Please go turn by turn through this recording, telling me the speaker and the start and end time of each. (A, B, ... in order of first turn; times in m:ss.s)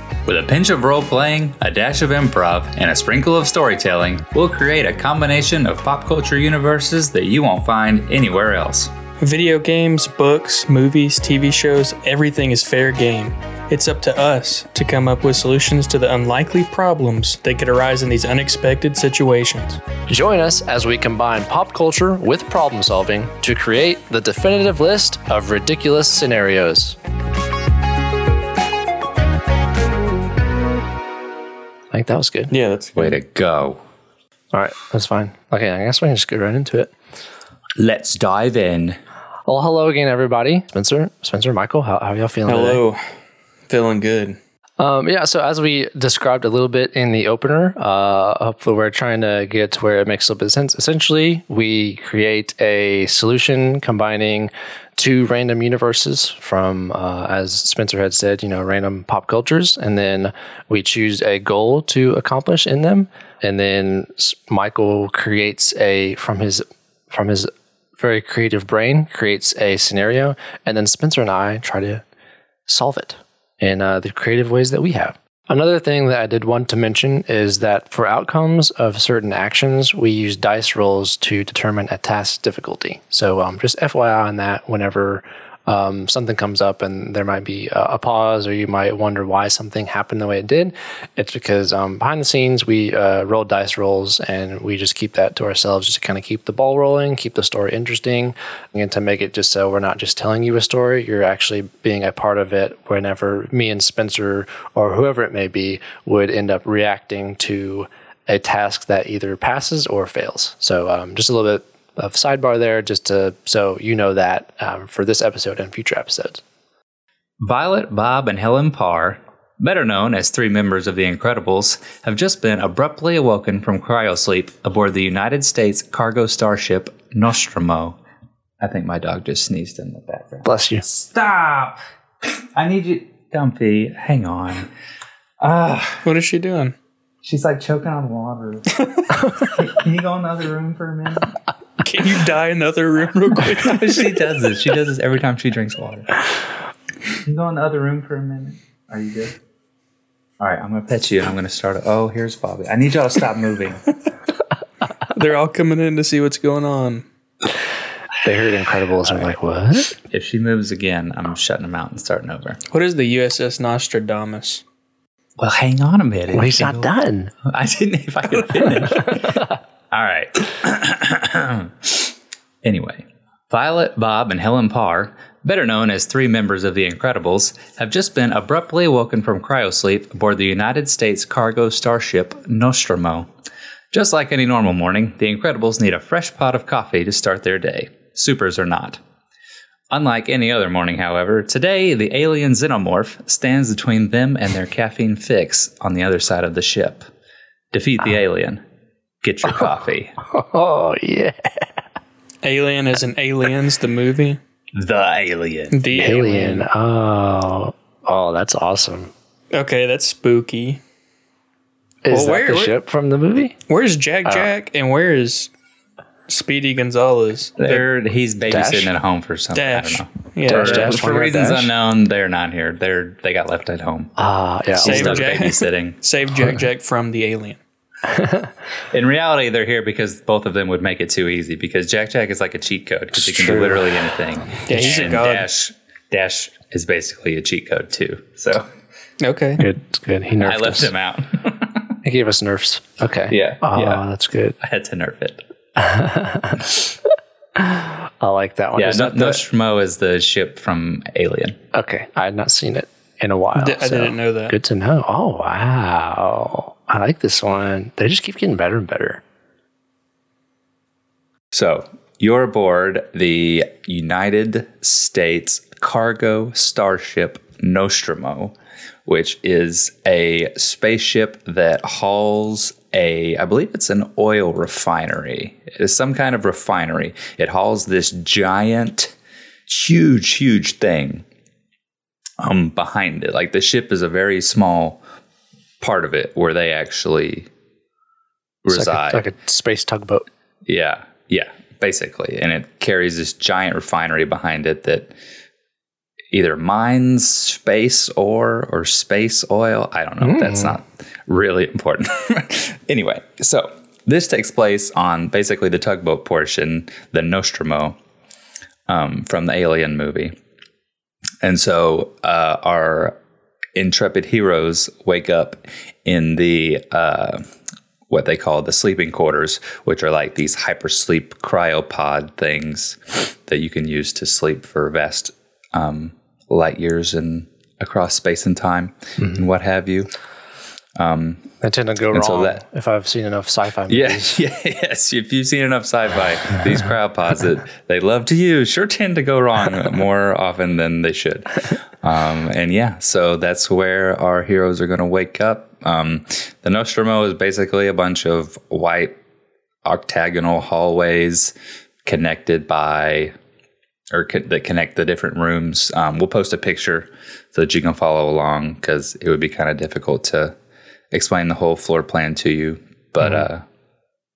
0:00.3-0:08.9 A
0:09.2-0:19.8 B
0:20.1-0:27.0 C
0:31.9-0:32.5 C
0:32.5-0:33.2 B
0:33.0-0:33.8 A
0:34.5-0:36.9 C
0:37.8-0:39.0 A
0:39.5-0:42.8 C
0:42.5-0:43.0 B
0:43.7-0:44.4 B
0:44.8-1:12.0 C
1:12.7-1:56.4 C
1:57.4-2:08.0 A
2:08.6-2:14.7 A
2:10.4-2:10.8 C
2:15.4-2:16.0 A
2:16.0-2:16.8 B
2:17.2-2:21.3 A
2:21.8-2:24.2 B
2:23.5-2:26.2 A
2:27.2-2:29.4 A
2:30.4-2:33.8 A
2:35.1-2:37.0 B
2:38.2-2:39.9 C
2:40.1-2:42.6 A
2:42.7-2:44.6 B
2:45.4-2:46.9 A
2:46.3-2:47.3 C
2:47.4-3:03.3 A
3:03.9-3:09.0 A
3:09.9-3:17.0 A
3:17.7-3:18.6 A
3:19.2-3:20.1 A
3:20.3-3:21.7 C
3:22.4-3:24.4 B
3:24.8-3:25.9 A
3:25.7-3:26.7 B
3:26.0-3:29.1 C
3:29.5-3:30.8 B
3:32.0-3:33.6 C
3:32.1-3:32.8 B
3:33.7-3:35.5 B
3:36.3-3:37.9 B
3:37.6-3:44.1 A
3:38.5-3:38.9 C
3:39.5-3:41.2 B
3:40.5-3:41.7 C
3:44.2-3:45.2 C
3:44.8-3:46.0 A
3:44.8-3:47.6 B
3:48.1-3:48.5 C
3:48.9-3:58.7 A
3:53.2-3:53.8 B
3:54.6-3:55.5 B
3:59.2-3:59.7 B
3:59.6-4:00.9 C
4:00.4-4:01.9 A
4:02.0-4:04.6 C
4:03.3-4:04.0 A
4:04.6-4:05.4 A
4:05.8-4:06.9 C
4:07.6-4:09.4 C
4:08.8-4:11.6 A
4:11.7-4:19.2 C
4:13.6-4:14.5 B
4:21.5-4:28.6 A
4:29.1-4:39.1 A
4:39.7-4:41.2 A
4:42.4-4:45.0 A
4:45.8-4:47.5 A
4:48.6-4:49.2 A
4:48.7-4:50.2 C
4:50.6-4:55.1 A
4:56.3-5:08.0 A
5:00.2-5:00.8 C
5:08.9-5:10.3 A
5:11.4-5:13.2 A
5:13.8-5:17.4 A
5:18.1-5:30.1 A
5:31.0-5:31.5 A
5:31.6-5:34.4 C
5:32.1-5:32.6 A
5:33.9-5:49.1 A
5:49.8-5:51.5 A
5:52.0-5:53.3 A
5:54.1-6:00.5 A
6:01.1-6:03.6 A